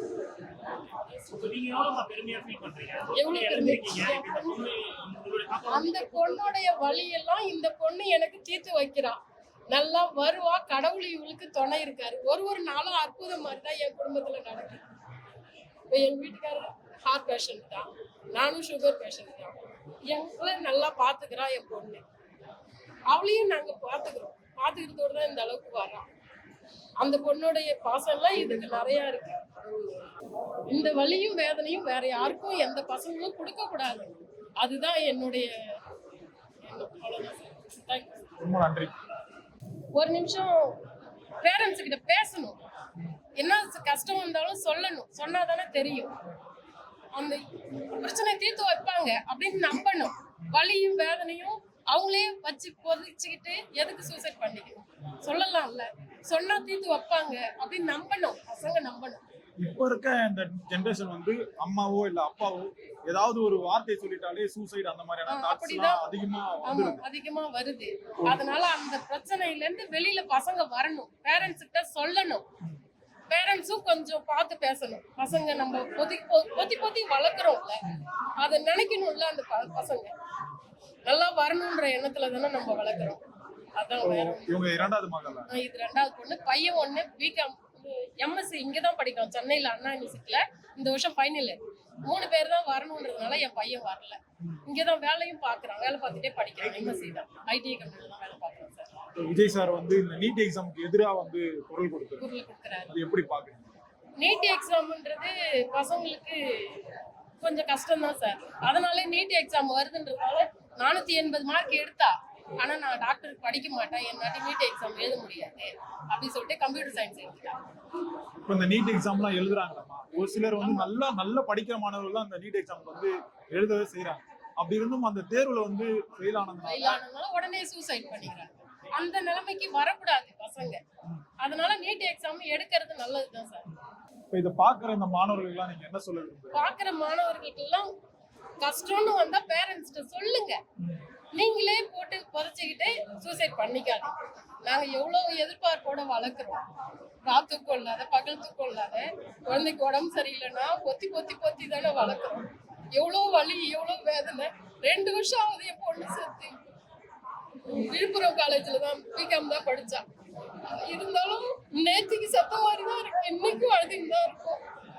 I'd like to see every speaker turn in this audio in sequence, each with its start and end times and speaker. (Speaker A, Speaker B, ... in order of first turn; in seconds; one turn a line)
Speaker A: 1.1-6.5
Speaker B: 3.1-4.6
Speaker B: 5.7-9.2
Speaker B: 9.7-14.8
Speaker B: 15.9-22.0
Speaker B: 23.1-26.1
Speaker B: 27.0-29.4
Speaker B: 30.7-35.8
Speaker B: 36.6-38.2
Speaker C: 38.4-38.9
Speaker B: 39.9-40.8
Speaker B: 41.4-42.6
Speaker B: 43.4-46.1
Speaker B: 47.1-47.4
Speaker B: 48.0-59.2
Speaker C: 59.6-67.0
Speaker B: 65.3-66.1
Speaker B: 66.6-72.4
Speaker B: 73.3-80.1
Speaker B: 81.0-83.2
Speaker B: 83.8-84.6
Speaker C: 84.0-85.5
Speaker B: 85.5-99.0
Speaker C: 99.2-102.2
Speaker B: 102.2-102.9
Speaker C: 102.9-103.7
Speaker B: 104.2-106.9
Speaker B: 107.4-117.6
Speaker C: 118.4-127.0
Speaker B: 126.6-130.8
Speaker B: 131.4-133.7
Speaker C: 134.3-136.7
Speaker B: 136.5-137.9
Speaker B: 138.6-140.6
Speaker B: 141.3-144.1
Speaker B: 144.6-146.6
Speaker B: 147.2-156.6
Speaker B: 157.7-160.0
Speaker B: 160.6-164.6